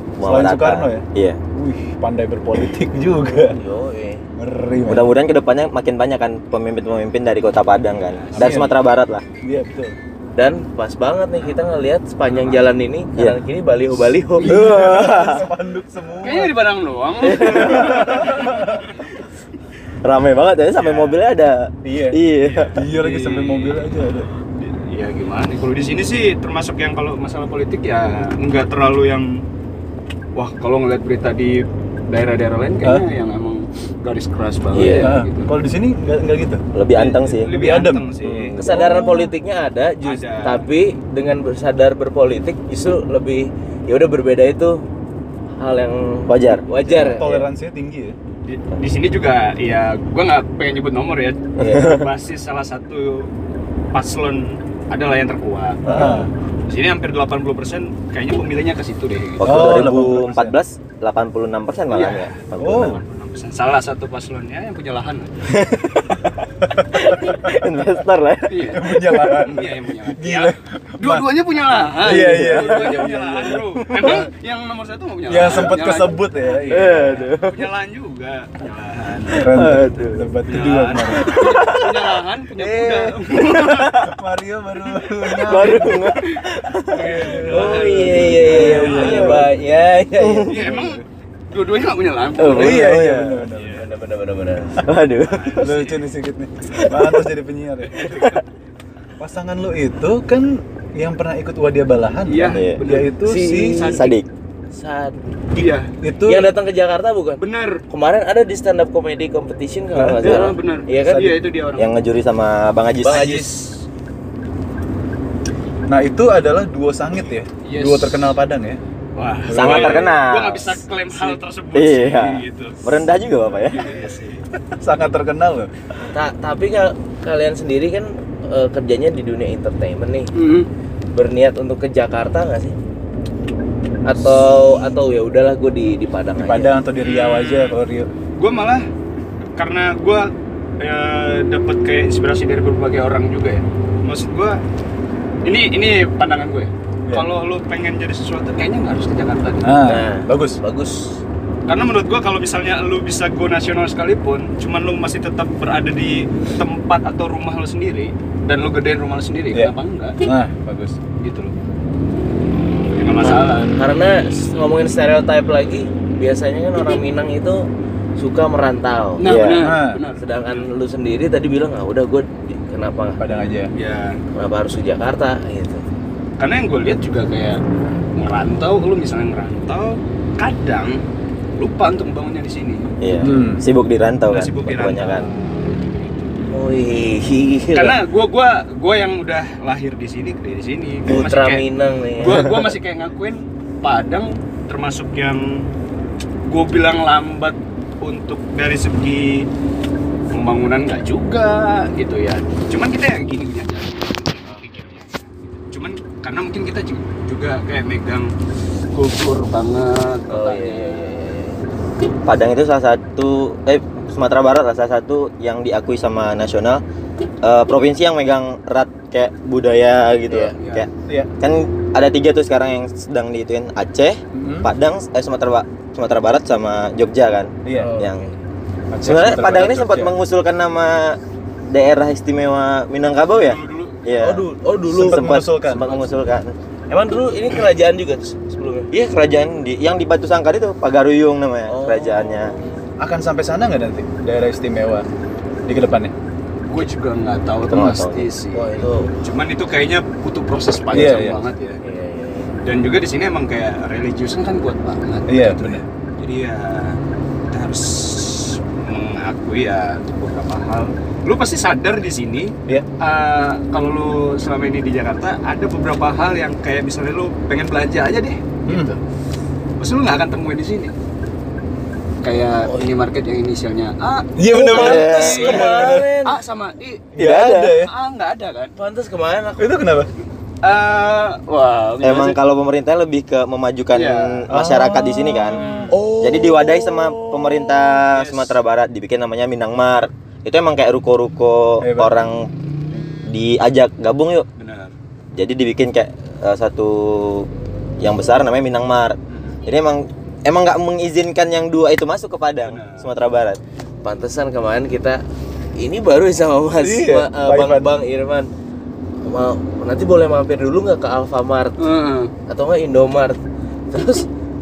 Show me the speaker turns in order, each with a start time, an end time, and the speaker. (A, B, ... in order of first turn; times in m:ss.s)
0:00.2-0:01.4 A
0:00.2-0:03.6 B
0:03.4-0:04.2 C
0:04.4-0:05.1 B
0:04.8-0:09.2 A
0:08.0-0:08.7 D
0:08.3-0:08.7 B
0:09.4-0:10.0 B
0:10.4-0:14.5 C
0:12.3-0:12.6 D
0:14.4-0:15.2 D
0:14.4-0:15.5 A
0:14.4-0:16.5 B
0:16.2-0:19.0 D
0:17.2-0:18.3 A
0:17.4-0:18.9 B
0:20.0-0:22.7 A
0:20.8-0:21.2 D
0:21.8-0:22.2 B
0:22.4-0:23.9 D
0:22.7-0:24.3 B
0:24.6-0:29.3 D
0:30.3-0:35.5 D
0:34.7-0:35.1 C
0:34.8-0:35.1 A
0:35.0-0:36.6 B
0:36.7-0:37.5 A
0:36.9-0:38.5 D
0:37.5-0:39.3 B
0:38.5-0:39.0 A
0:38.6-0:44.8 C
0:40.0-0:40.6 D
0:45.6-0:47.4 C
0:46.3-0:47.2 A
0:46.9-0:48.2 B
0:48.4-0:53.3 D
0:51.6-0:52.0 A
0:53.9-0:59.9 D
0:55.9-0:56.3 B
0:55.9-0:56.1 C
0:59.4-1:03.0 A
0:59.4-1:00.6 B
1:01.9-1:05.5 D
1:02.6-1:03.0 B
1:05.5-1:06.3 A
1:06.9-1:08.8 A
1:07.0-1:07.5 B
1:08.5-1:19.7 D
1:08.7-1:11.3 B
1:12.0-1:14.3 B
1:12.0-1:13.0 A
1:15.3-1:17.2 B
1:16.7-1:17.6 A
1:19.3-1:20.4 A
1:19.4-1:21.7 B
1:20.4-1:24.0 D
1:21.2-1:22.0 A
1:22.6-1:23.1 B
1:23.2-1:24.1 A
1:23.9-1:26.1 B
1:25.4-1:27.3 A
1:25.5-1:26.0 D
1:26.9-1:29.5 B
1:26.9-1:29.4 D
1:27.5-1:30.5 C
1:28.8-1:29.4 A
1:30.2-1:30.6 A
1:30.5-1:33.8 D
1:30.5-1:31.0 B
1:32.4-1:33.4 A
1:32.5-1:33.9 B
1:32.5-1:34.8 C
1:34.8-1:35.7 A
1:35.3-1:36.0 D
1:35.6-1:38.2 B
1:37.9-1:38.4 D
1:39.2-1:43.9 B
1:42.2-1:44.1 D
1:42.5-1:42.8 A
1:43.2-1:44.0 C
1:43.9-1:44.3 A
1:44.7-1:45.6 C
1:45.6-1:45.9 D
1:46.0-1:46.5 B
1:46.2-1:51.3 C
1:47.4-1:47.8 D
1:49.9-1:50.4 B
1:50.2-1:52.0 D
1:51.1-1:51.4 B
1:51.8-1:53.4 A
1:53.0-1:53.6 C
1:53.1-1:53.5 D
1:55.9-1:58.8 B
1:57.6-1:58.2 D
1:59.2-2:02.8 D
1:59.5-2:00.0 B
1:59.5-2:00.8 A
2:01.7-2:03.9 A
2:03.5-2:04.4 D
2:04.8-2:05.7 B
2:06.1-2:10.3 C
2:10.3-2:10.7 D
2:11.1-2:12.7 C
2:14.0-2:16.7 C
2:16.4-2:18.1 B
2:17.0-2:17.8 D
2:18.4-2:18.8 D
2:19.6-2:24.6 D
2:25.4-2:29.7 D
2:29.6-2:30.6 B
2:29.8-2:31.2 C
2:31.7-2:40.2 D
2:39.5-2:41.0 B
2:41.2-2:41.5 D
2:42.9-2:43.8 D
2:43.2-2:47.6 C
2:48.2-2:49.2 C
2:49.2-2:50.6 D
2:49.2-2:49.7 A
2:49.6-2:50.0 B
2:50.2-2:53.2 C
2:53.2-2:53.7 B
2:53.7-2:54.2 D
2:54.3-2:55.8 C
2:56.4-2:57.6 D
2:58.2-3:01.0 D
3:01.6-3:03.0 D
3:03.0-3:05.3 A
3:03.2-3:03.6 B
3:04.3-3:06.3 D
3:06.5-3:08.0 C
3:07.7-3:11.6 D
3:11.1-3:12.6 C
3:12.2-3:15.7 D
3:16.4-3:19.4 D
3:20.3-3:28.3 D
3:28.9-3:31.2 D
3:30.3-3:31.6 C
3:32.2-3:36.8 A
3:37.4-3:48.2 A
3:40.3-3:40.6 C
3:44.3-3:44.7 B
3:47.6-3:47.9 B
3:47.7-3:48.4 C
3:48.9-3:50.2 B
3:49.0-3:56.5 A
3:53.3-3:54.0 D
3:54.2-3:55.3 C
3:54.9-3:56.1 B
3:56.9-3:58.9 C
3:58.9-4:02.5 A
4:01.7-4:03.0 C
4:03.0-4:05.0 B
4:05.6-4:06.1 B
4:06.7-4:11.8 D
4:07.7-4:08.3 A
4:08.5-4:09.1 C
4:10.9-4:11.4 B
4:11.8-4:12.6 C
4:12.6-4:17.0 D
4:15.3-4:15.8 B
4:17.5-4:29.0 D
4:28.6-4:29.0 B
4:29.8-4:30.9 D
4:32.2-4:38.7 D
4:32.6-4:32.9 C
4:34.4-4:36.1 B
4:34.5-4:36.4 C
4:34.7-4:35.6 A
4:37.1-4:37.9 B
4:37.2-4:37.8 A
4:38.8-4:39.8 C
4:39.6-4:40.1 B
4:40.6-4:42.4 D
4:42.0-4:45.6 A
4:43.9-4:44.5 D
4:44.5-4:46.9 B
4:45.5-4:46.0 D
4:45.9-4:47.4 C
4:46.2-4:52.5 A
4:48.1-4:48.6 D
4:51.8-4:52.1 B
4:53.2-4:54.5 A
4:54.6-4:54.9 D
4:55.3-4:57.5 A
4:58.0-5:03.6 A
4:59.3-4:59.6 D
5:02.6-5:03.1 D
5:04.0-5:05.2 C
5:05.8-5:08.5 C
5:06.8-5:07.8 B
5:09.2-5:11.8 C
5:11.8-5:12.3 D
5:12.5-5:13.4 C
5:13.9-5:14.3 C